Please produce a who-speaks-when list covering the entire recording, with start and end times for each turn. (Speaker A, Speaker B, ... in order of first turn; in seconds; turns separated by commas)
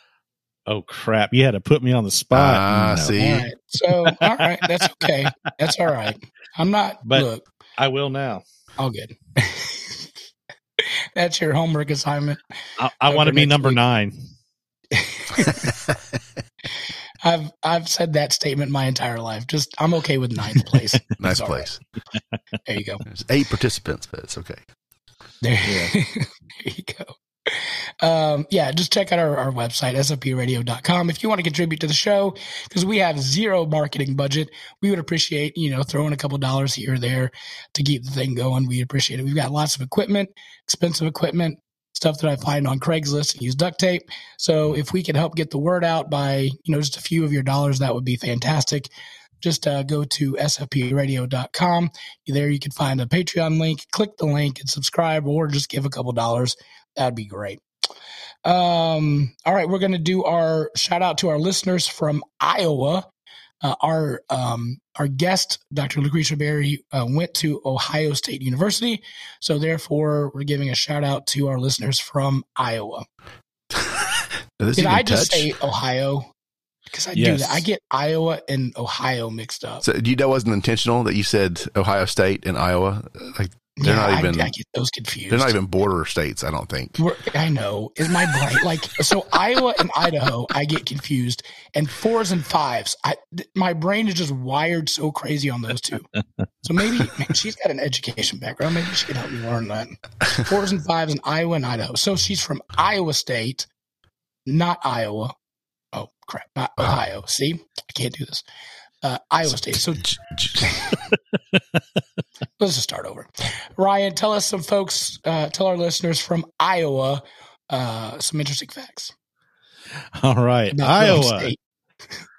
Speaker A: 0.7-3.3, Speaker B: 2.3-3.5, Speaker C: 3.2-7.5, Speaker A: 4.6-5.1, Speaker A: 7.1-8.4, Speaker C: 8.8-10.0, Speaker C: 10.8-12.4, Speaker A: 12.8-14.2, Speaker C: 13.1-13.8, Speaker C: 14.9-15.7, Speaker C: 17.2-21.7, Speaker B: 21.2-21.8, Speaker C: 22.7-23.0, Speaker B: 23.1-24.6, Speaker C: 25.4-48.9, Speaker A: 25.6-25.9, Speaker C: 49.4-57.6, Speaker C: 58.5-63.1, Speaker C: 63.6-73.1, Speaker B: 73.7-75.5, Speaker C: 74.8-76.3, Speaker C: 76.9-79.8, Speaker A: 77.2-77.6, Speaker B: 79.8-84.5, Speaker C: 83.8-85.5, Speaker B: 85.3-87.0, Speaker C: 87.0-96.1, Speaker C: 96.6-103.7, Speaker C: 104.5-105.3, Speaker C: 105.9-108.4, Speaker C: 109.0-110.1, Speaker B: 109.5-111.0, Speaker C: 112.6-119.1, Speaker A: 120.2-121.5, Speaker C: 120.7-121.6